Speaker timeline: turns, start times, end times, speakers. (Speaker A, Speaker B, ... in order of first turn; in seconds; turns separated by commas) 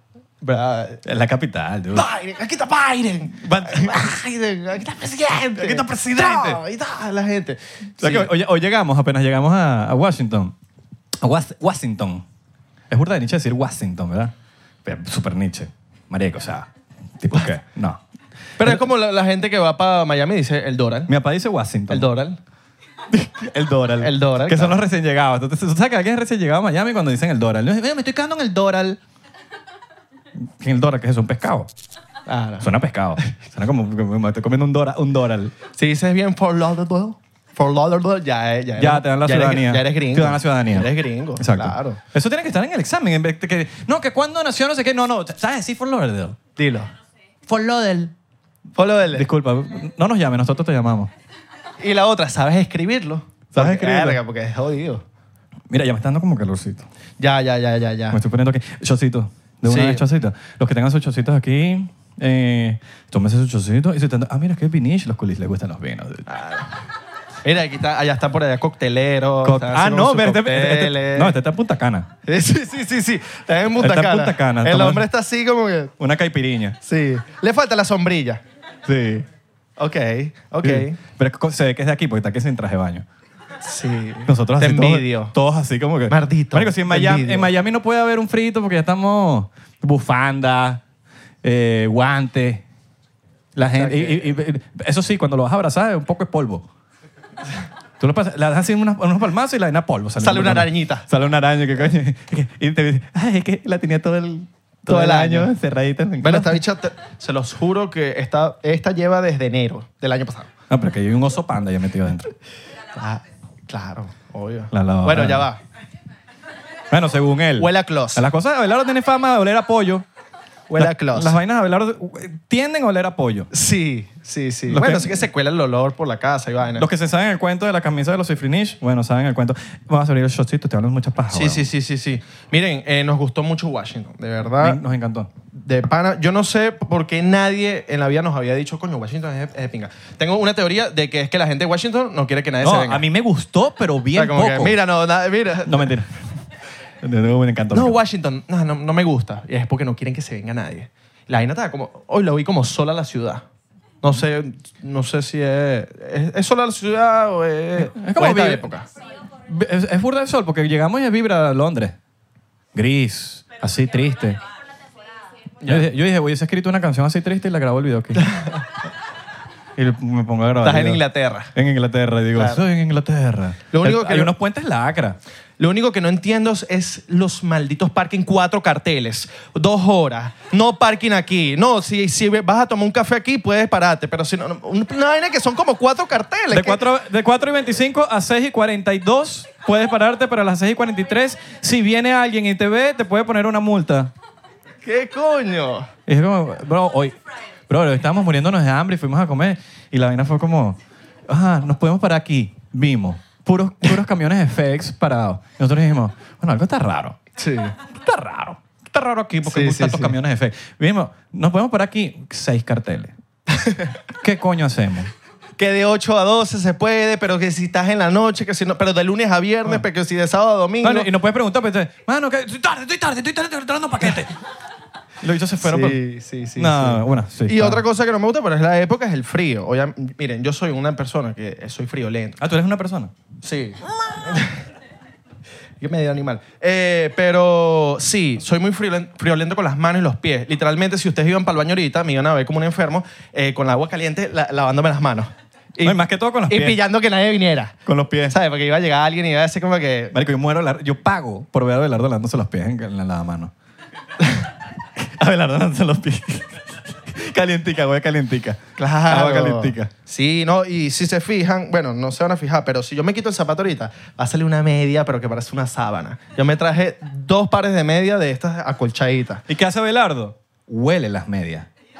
Speaker A: 0.4-1.0, Speaker B: 1.0-2.1, Speaker A: 1.9-8.3, Speaker B: 3.3-4.1, Speaker B: 5.5-6.6, Speaker B: 8.0-10.5, Speaker B: 11.2-12.2, Speaker B: 12.9-14.3, Speaker B: 14.8-18.0, Speaker A: 18.6-21.1, Speaker B: 21.1-22.1, Speaker A: 21.9-22.4, Speaker B: 23.1-29.0, Speaker A: 24.0-24.8, Speaker B: 30.5-31.7, Speaker A: 32.2-32.7, Speaker B: 32.6-35.5, Speaker A: 35.8-42.0, Speaker B: 38.8-46.4, Speaker A: 46.5-46.9, Speaker B: 47.5-48.1, Speaker A: 48.8-49.3, Speaker B: 49.1-51.1, Speaker A: 51.8-55.0, Speaker B: 53.5-54.2, Speaker B: 55.7-56.9, Speaker A: 57.2-58.2, Speaker B: 58.1-66.3, Speaker A: 59.6-60.0, Speaker A: 66.3-66.8, Speaker A: 67.4-71.3, Speaker B: 69.4-72.1, Speaker A: 72.2-75.9, Speaker B: 73.8-75.0, Speaker B: 76.0-76.8, Speaker A: 76.8-78.4, Speaker B: 78.8-79.2, Speaker A: 79.8-81.0, Speaker B: 80.6-83.0, Speaker A: 83.6-85.3, Speaker B: 84.2-90.8, Speaker A: 86.1-87.5, Speaker B: 91.4-92.6, Speaker B: 93.5-96.7, Speaker A: 93.7-94.3, Speaker B: 98.0-106.6, Speaker A: 100.2-101.1, Speaker A: 104.9-105.5, Speaker A: 106.2-110.5, Speaker B: 110.7-112.3, Speaker A: 112.9-115.6, Speaker B: 114.7-115.5, Speaker B: 116.9-120.0, Speaker A: 117.6-118.2, Speaker A: 120.7-121.4, Speaker B: 120.7-123.5, Speaker A: 123.5-126.9, Speaker B: 124.7-125.2, Speaker B: 126.8-131.7, Speaker A: 131.3-134.8, Speaker B: 134.6-135.3, Speaker A: 135.5-143.0, Speaker B: 142.6-144.8, Speaker A: 144.1-145.9, Speaker B: 145.6-146.1, Speaker B: 147.0-148.0, Speaker A: 147.7-153.4, Speaker A: 154.0-158.9, Speaker B: 157.8-158.6, Speaker B: 159.4-161.9, Speaker B: 162.7-164.4, Speaker A: 165.6-165.9, Speaker B: 165.6-168.3, Speaker A: 168.1-168.6, Speaker B: 169.8-171.0, Speaker A: 170.6-171.5, Speaker B: 171.5-175.2, Speaker A: 172.3-172.6, Speaker A: 173.7-174.3, Speaker A: 175.6-186.8, Speaker B: 186.5-194.1, Speaker A: 194.8-195.9, Speaker B: 196.1-197.1, Speaker B: 197.7-207.2, Speaker A: 207.4-207.8, Speaker B: 207.9-213.1, Speaker A: 209.4-210.2, Speaker A: 213.5-214.0, Speaker B: 214.2-215.1, Speaker A: 215.6-221.1, Speaker B: 220.8-224.3, Speaker B: 225.2-226.0, Speaker A: 225.6-232.4, Speaker B: 226.6-227.8, Speaker B: 232.4-233.1, Speaker A: 233.4-234.6, Speaker A: 235.8-250.1, Speaker B: 245.8-246.8, Speaker B: 247.8-248.3, Speaker B: 250.1-253.5, Speaker B: 255.0-259.9, Speaker A: 258.8-269.4, Speaker B: 269.5-271.7